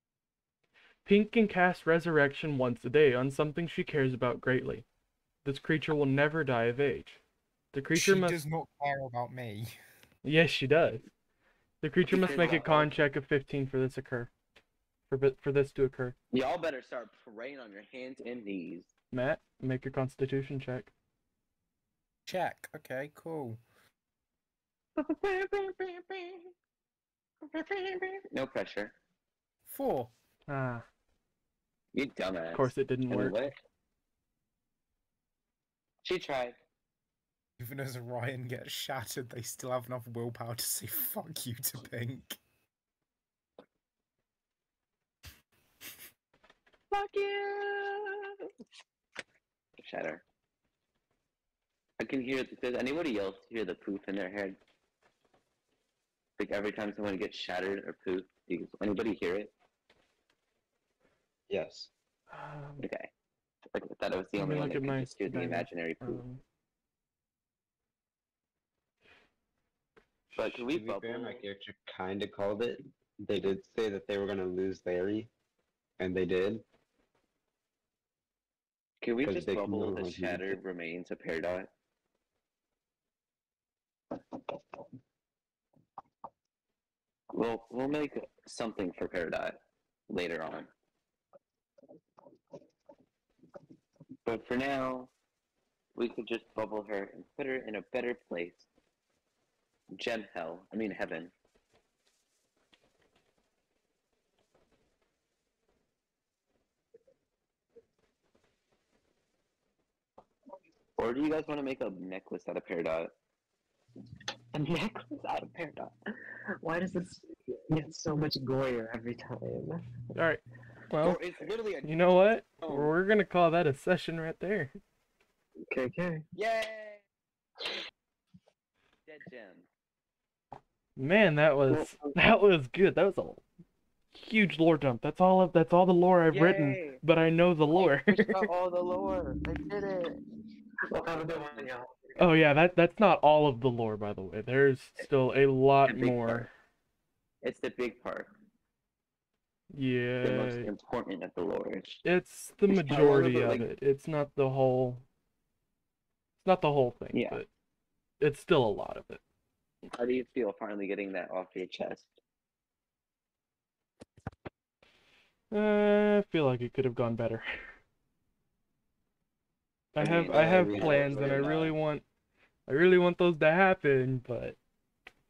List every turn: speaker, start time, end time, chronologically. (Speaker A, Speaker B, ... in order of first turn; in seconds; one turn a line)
Speaker A: 1.1-4.8
Speaker A: 5.4-7.2
Speaker A: 7.7-8.4
Speaker B: 7.9-9.7
Speaker A: 10.2-11.1
Speaker A: 11.8-14.3
Speaker C: 12.1-12.9
Speaker A: 15.1-16.1
Speaker C: 16.3-18.9
Speaker A: 19.1-20.9
Speaker B: 22.3-23.6
Speaker C: 25.0-26.4
Speaker C: 27.5-28.9
Speaker B: 29.7-30.1
Speaker A: 30.5-30.9
Speaker C: 31.9-33.5
Speaker A: 32.5-33.5
Speaker C: 36.0-36.6
Speaker B: 37.6-42.4
Speaker C: 46.9-48.5
Speaker C: 49.8-50.2
Speaker C: 52.0-54.6
Speaker C: 56.4-59.5
Speaker D: 61.5-61.9
Speaker A: 62.3-62.9
Speaker C: 62.8-63.1
Speaker C: 63.7-66.2
Speaker A: 64.4-66.4
Speaker A: 70.3-70.6
Speaker C: 70.3-71.5
Speaker D: 70.7-75.3
Speaker D: 76.0-76.6
Speaker C: 79.0-81.7
Speaker D: 79.2-80.6
Speaker C: 87.3-90.7
Speaker C: 94.2-95.1
Speaker C: 95.9-98.7
Speaker C: 99.9-101.3
Speaker C: 111.0-113.1
Speaker E: 114.5-119.9
Speaker A: 120.1-121.2
Speaker C: 121.0-121.9
Speaker A: 121.8-124.7
Speaker C: 122.6-122.9
Speaker E: 125.7-126.3
Speaker C: 126.3-127.0
Speaker C: 129.1-129.7
Speaker A: 130.9-133.4
Speaker E: 131.7-132.2
Speaker A: 134.1-138.4
Speaker C: 136.3-137.0
Speaker C: 137.7-140.2
Speaker E: 140.9-142.4
Speaker C: 140.9-141.7
Speaker A: 142.2-146.5
Speaker C: 145.8-146.5
Speaker C: 147.4-148.3
Speaker A: 149.7-150.7
Speaker C: 150.2-152.0
Speaker A: 152.0-155.0
Speaker C: 152.7-153.7
Speaker A: 156.4-157.5
Speaker C: 157.1-157.4
Speaker A: 158.2-159.2
Speaker C: 159.9-162.1
Speaker A: 165.5-167.5
Speaker A: 169.9-172.0
Speaker C: 170.0-171.7
Speaker D: 170.0-171.7
Speaker A: 172.7-174.6